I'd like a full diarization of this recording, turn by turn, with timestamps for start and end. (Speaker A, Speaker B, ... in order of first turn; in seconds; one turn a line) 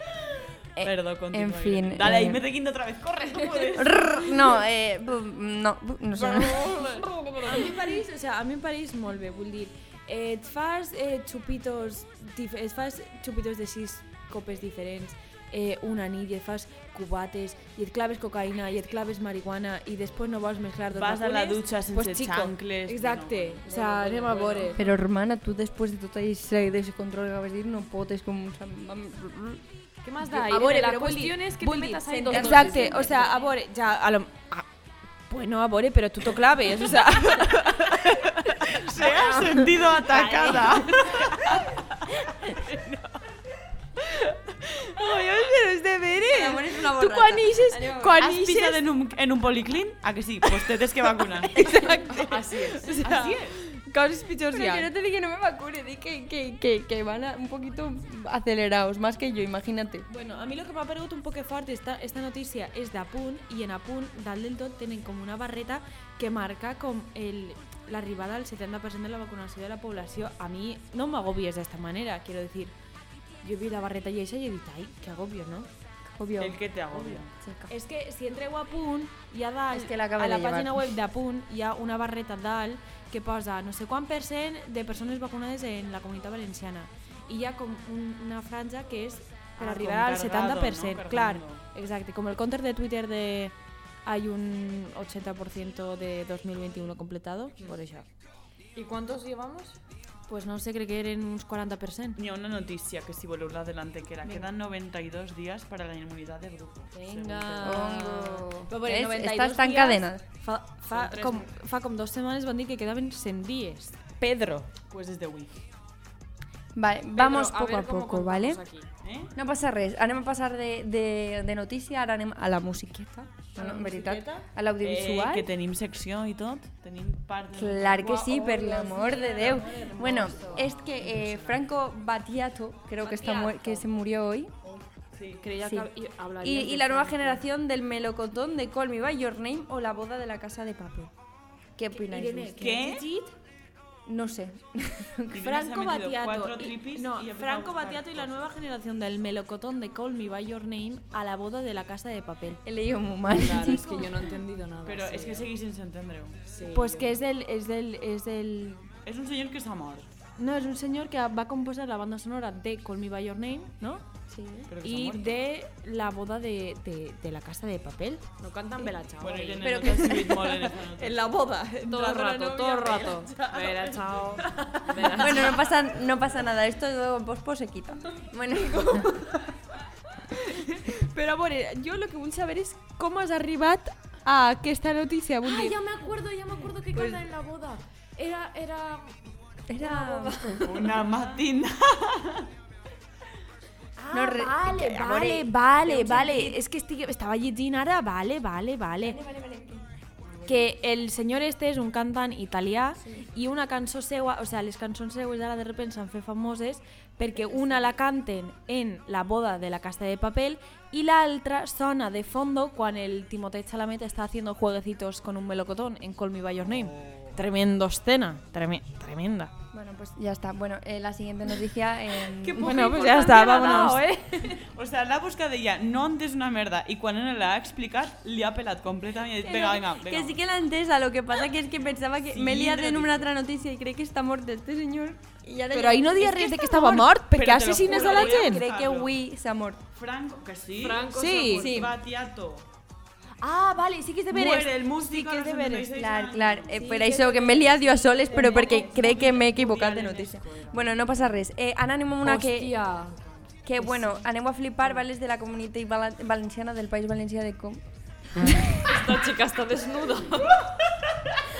Speaker A: 0.8-2.4
Speaker B: 0.8-4.6
Speaker A: 3.8-7.0
Speaker C: 6.2-24.8
Speaker D: 6.2-8.0
Speaker B: 20.9-23.6
Speaker D: 23.7-24.8
Speaker A: 24.7-29.6
Speaker D: 30.0-33.4
Speaker C: 30.3-34.7
Speaker A: 32.1-33.4
Speaker C: 35.3-39.0
Speaker B: 37.9-41.8
Speaker A: 38.9-41.3
Speaker D: 40.2-40.7
Speaker C: 42.4-43.1
Speaker C: 44.0-48.8
Speaker A: 46.3-48.2
Speaker D: 47.0-48.3
Speaker B: 48.2-51.6
Speaker C: 51.5-54.9
Speaker A: 51.6-52.0
Speaker D: 52.1-53.6
Speaker A: 54.5-60.1
Speaker C: 60.1-72.7
Speaker C: 73.4-75.7
Speaker A: 76.1-76.6
Speaker B: 76.4-77.3
Speaker A: 77.3-77.7
Speaker C: 77.7-98.1
Speaker A: 79.7-80.9
Speaker B: 89.6-91.6
Speaker D: 98.8-99.8
Speaker C: 100.3-102.2
Speaker B: 102.2-107.9
Speaker C: 106.9-114.7
Speaker A: 107.6-110.2
Speaker D: 110.9-111.5
Speaker B: 114.9-115.5
Speaker A: 116.8-118.6
Speaker D: 117.1-118.9
Speaker B: 119.0-119.3
Speaker A: 119.3-125.5
Speaker D: 123.6-124.3
Speaker C: 123.6-124.3
Speaker B: 124.8-128.2
Speaker A: 127.5-134.6
Speaker C: 128.1-131.2
Speaker D: 129.1-131.6
Speaker D: 133.0-133.8
Speaker B: 135.1-135.5
Speaker D: 135.4-137.4
Speaker A: 135.6-141.1
Speaker A: 141.8-143.1
Speaker D: 142.0-143.1
Speaker C: 142.1-143.3
Speaker B: 142.6-143.1
Speaker A: 144.1-145.4
Speaker B: 145.3-148.5
Speaker C: 145.4-152.6
Speaker A: 152.6-154.2
Speaker D: 153.3-155.5
Speaker B: 154.8-156.4
Speaker D: 156.5-157.2
Speaker C: 156.7-158.9
Speaker B: 159.1-160.1
Speaker C: 160.4-164.0
Speaker A: 164.3-164.7
Speaker B: 164.7-165.4
Speaker C: 164.8-168.3
Speaker D: 168.4-169.8
Speaker B: 169.2-171.3
Speaker A: 169.6-170.4
Speaker C: 171.0-173.6
Speaker D: 171.9-175.7
Speaker B: 173.5-174.4
Speaker C: 174.4-175.3
Speaker A: 175.2-179.2
Speaker D: 178.6-179.3
Speaker C: 180.3-185.8
Speaker D: 185.4-191.2
Speaker C: 186.9-187.2
Speaker A: 189.7-190.8
Speaker B: 190.6-192.5
Speaker D: 194.0-196.6
Speaker A: 194.1-196.3
Speaker C: 194.7-199.2
Speaker A: 199.0-199.9
Speaker B: 200.2-200.5
Speaker C: 200.5-219.5
Speaker A: 219.7-222.8
Speaker D: 222.3-224.6
Speaker C: 222.6-224.0
Speaker B: 224.6-230.4
Speaker A: 229.4-237.1
Speaker B: 232.3-233.3
Speaker C: 235.7-238.6
Speaker B: 237.3-239.2
Speaker A: 237.8-239.8
Speaker B: 239.9-242.7
Speaker D: 240.8-241.8
Speaker C: 241.1-241.7
Speaker A: 241.5-241.9
Speaker C: 243.4-245.9
Speaker B: 244.3-247.0
Speaker A: 245.9-252.8
Speaker D: 246.8-249.2
Speaker C: 246.8-247.5
Speaker C: 248.2-249.0
Speaker B: 248.8-251.4
Speaker D: 252.2-253.2
Speaker A: 253.7-259.1
Speaker D: 253.8-254.2
Speaker D: 258.8-260.6